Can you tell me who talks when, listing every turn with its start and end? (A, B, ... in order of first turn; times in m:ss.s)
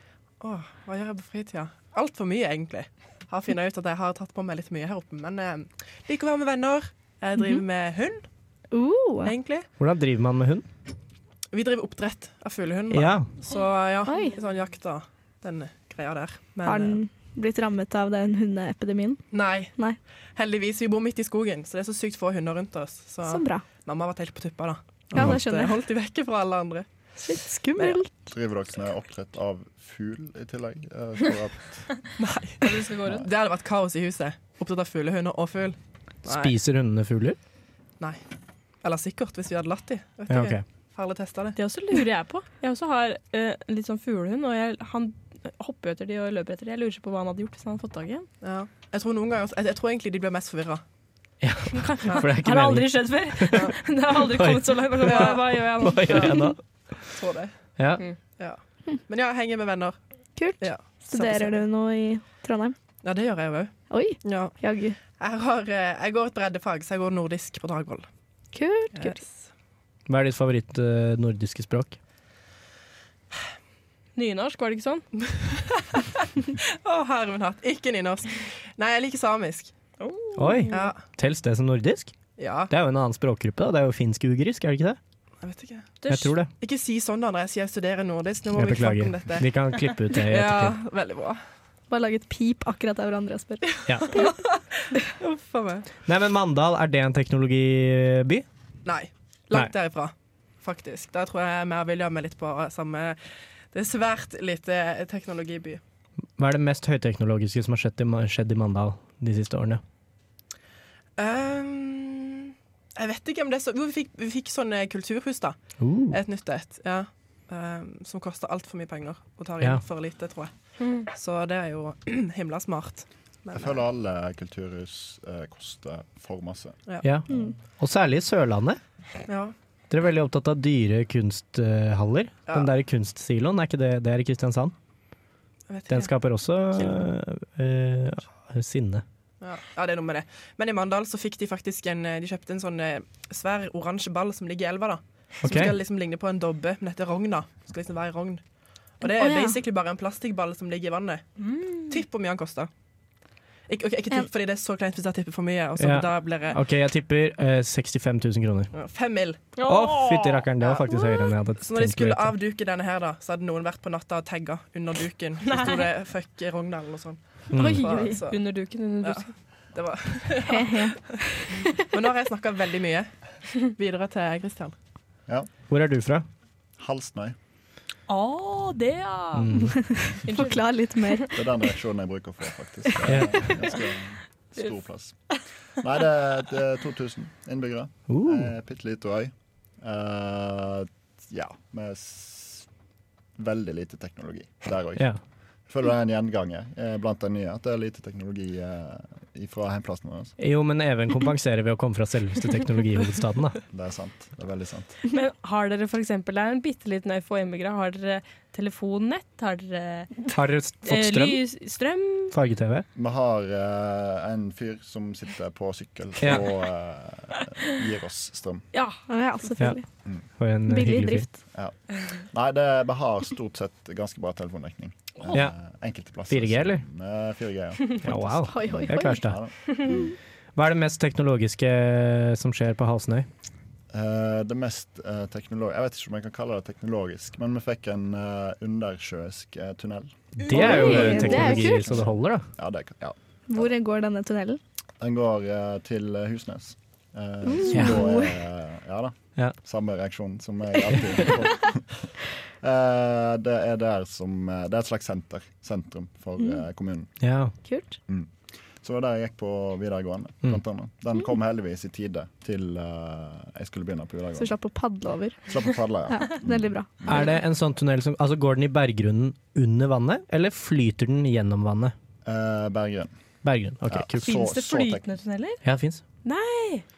0:00.4-0:08.2 A
0:07.4-0:07.6 B
0:08.7-0:09.3 B
0:09.2-0:09.6 A
0:09.8-0:10.7 C
0:11.5-0:17.0 A
0:12.9-0:13.3 C
0:14.0-0:14.4 B
0:16.6-0:20.0 B
0:19.3-0:19.7 A
0:20.3-0:26.9 A
0:23.2-0:23.7 B
0:25.1-0:25.8 B
0:27.2-0:28.3 B
0:28.3-0:32.0 D
0:32.2-0:36.5 A
0:32.6-0:33.2 E
0:36.2-0:37.4 C
0:38.8-0:41.6 A
0:40.3-0:40.6 C
0:41.6-0:48.3 E
0:48.4-0:50.8 A
0:51.4-0:56.6 C
0:51.8-0:56.3 E
0:55.0-0:55.5 A
0:56.0-0:56.4 A
0:57.1-0:57.8 A
0:57.8-0:58.0 C
0:58.4-1:00.0 A
1:00.4-1:02.8 B
1:00.6-1:01.6 A
1:03.0-1:04.6 A
1:03.9-1:05.0 B
1:05.2-1:08.1 A
1:08.5-1:09.2 B
1:09.0-1:09.3 A
1:10.1-1:12.0 C
1:14.2-1:15.0 E
1:16.8-1:19.7 A
1:20.0-1:20.9 E
1:20.4-1:22.1 C
1:20.7-1:21.0 A
1:22.4-1:22.7 A
1:22.7-1:25.0 C
1:25.4-1:26.0 A
1:26.0-1:26.3 E
1:26.1-1:26.5 C
1:26.6-1:29.5 A
1:28.5-1:30.8 C
1:30.2-1:31.4 A
1:31.9-1:34.3 B
1:35.2-1:35.8 A
1:36.0-1:38.4 C
1:38.8-1:43.2 A
1:43.7-1:45.8 A
1:46.4-1:49.8 C
1:51.2-1:55.6 A
1:55.8-1:56.2 C
1:56.1-2:03.8 A
2:00.8-2:01.0 E
2:03.5-2:06.8 D
2:07.0-2:08.8 C
2:09.3-2:09.5 A
2:09.9-2:14.7 C
2:15.7-2:16.1 A
2:15.9-2:19.0 C
2:19.4-2:28.4 A
2:25.4-2:25.8 C
2:29.0-2:31.4 A
2:29.0-2:29.6 B
2:31.4-2:32.0 E
2:31.9-2:32.7 A
2:33.7-2:36.6 A
2:35.8-2:38.7 C
2:38.7-2:39.5 A
2:39.6-2:40.5 E
2:39.6-2:42.3 C
2:40.6-2:48.4 A
2:45.5-2:45.8 E
2:47.5-2:47.8 C
2:47.5-2:48.2 B
2:48.3-2:49.3 E
2:49.0-2:50.9 A
2:50.4-2:51.5 B
2:51.9-2:53.1 A
2:53.7-2:54.7 A
2:55.7-2:56.2 C
2:56.8-2:57.3 D
2:58.1-2:59.5 E
2:59.3-2:59.8 C
2:59.8-3:01.4 B
3:00.2-3:01.3 E
3:01.3-3:12.6 D
3:03.0-3:03.4 C
3:08.1-3:08.5 C
3:13.4-3:15.1 D
3:15.7-3:20.3 D
3:20.4-3:23.6 C
3:23.7-3:24.9 D
3:25.1-3:30.2 E
3:30.3-3:31.4 C
3:30.8-3:32.3 E
3:32.3-3:32.8 C
3:32.9-3:38.6 D
3:36.2-3:36.4 C
3:38.7-3:39.0 E
3:39.1-3:39.9 B
3:40.4-3:41.3 C
3:40.7-3:41.4 B
3:41.5-3:50.1 D
3:46.3-3:46.8 C
3:48.0-3:49.4 C
3:48.5-3:49.3 B
3:49.8-3:50.1 B
3:50.6-3:53.3 C
3:53.9-4:03.2 D
4:00.4-4:02.5 C
4:00.5-4:02.0 B
4:00.5-4:00.8 A
4:03.5-4:04.6 B
4:05.0-4:12.1 D
4:07.4-4:08.3 B
4:07.7-4:08.0 C
4:12.6-4:17.1 D
4:17.2-4:17.5 C
4:17.6-4:18.0 B
4:18.8-4:24.5 D
4:24.4-4:27.2 B
4:25.5-4:27.3 D
4:27.0-4:31.9 C
4:32.2-4:33.1 D
4:33.4-4:34.3 C
4:33.9-4:35.1 D
4:34.2-4:35.6 E
4:35.6-4:36.0 C
4:36.2-4:36.8 E